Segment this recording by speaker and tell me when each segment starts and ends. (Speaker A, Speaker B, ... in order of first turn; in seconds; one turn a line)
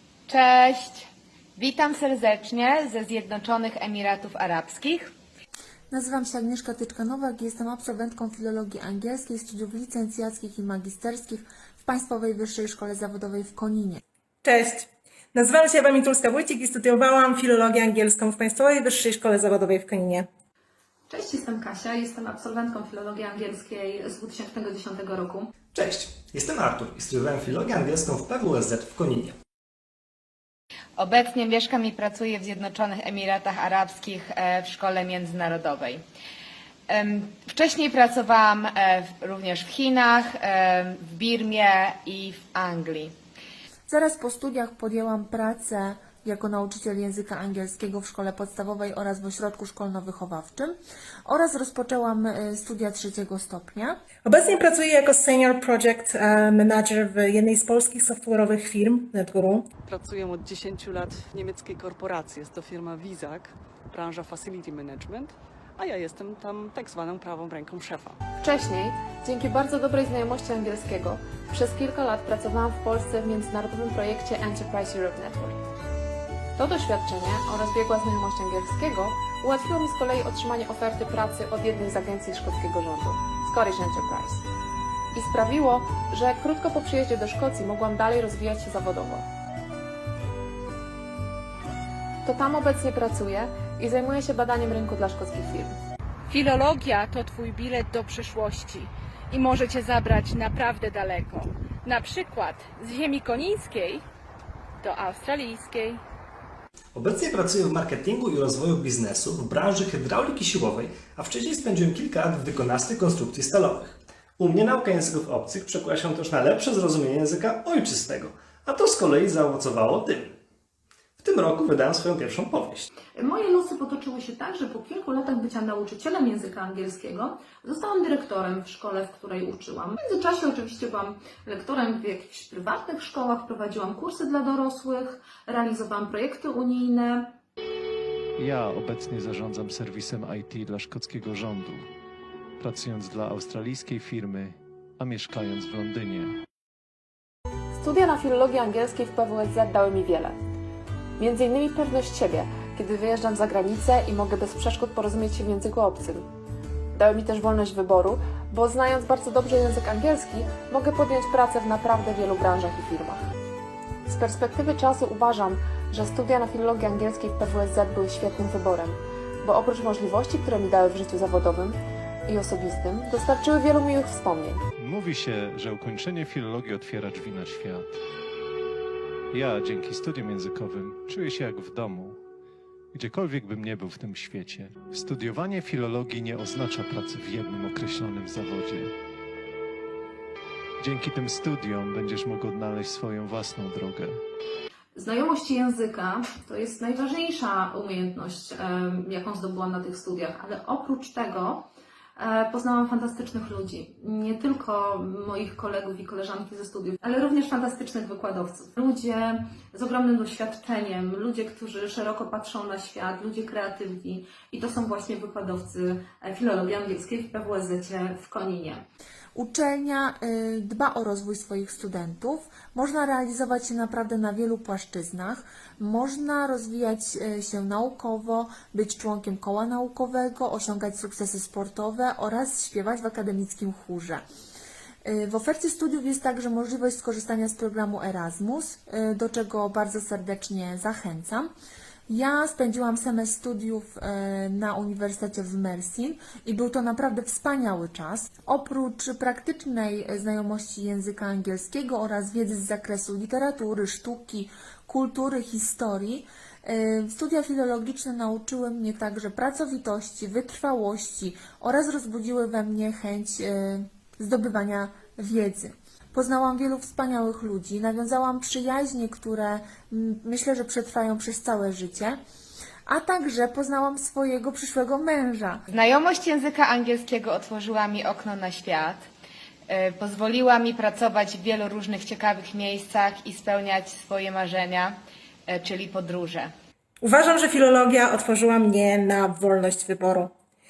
Speaker A: 0.3-5.1
Speaker B: 5.9-14.0
Speaker C: 14.4-20.3
Speaker D: 21.1-25.5
Speaker E: 25.7-29.4
Speaker A: 31.0-36.0
Speaker A: 36.9-43.1
Speaker B: 43.9-50.7
Speaker B: 51.2-54.0
Speaker C: 54.2-59.7
Speaker F: 59.9-68.2
Speaker G: 68.4-75.6
Speaker G: 76.6-84.5
Speaker G: 85.1-89.2
Speaker G: 92.2-95.7
Speaker H: 96.3-104.0
Speaker H: 104.8-106.0
Speaker E: 107.0-120.4
Speaker E: 121.2-122.9
Speaker D: 123.1-137.3
Speaker I: 138.4-141.9
Speaker I: 142.6-146.3
Speaker G: 147.7-150.4
Speaker G: 151.2-156.3
Speaker G: 156.9-163.2
Speaker G: 164.1-174.6
Speaker I: 174.8-178.0
Speaker I: 179.3-182.2
Speaker I: 182.9-188.9
Speaker I: 190.8-194.2
Speaker D: 194.9-218.8
Speaker B: 219.3-234.2
Speaker B: 235.0-241.5
Speaker B: 242.1-272.2
Speaker B: 272.9-275.6
Speaker A: 275.7-279.1
Speaker A: 279.7-286.5
Speaker C: 287.0-290.3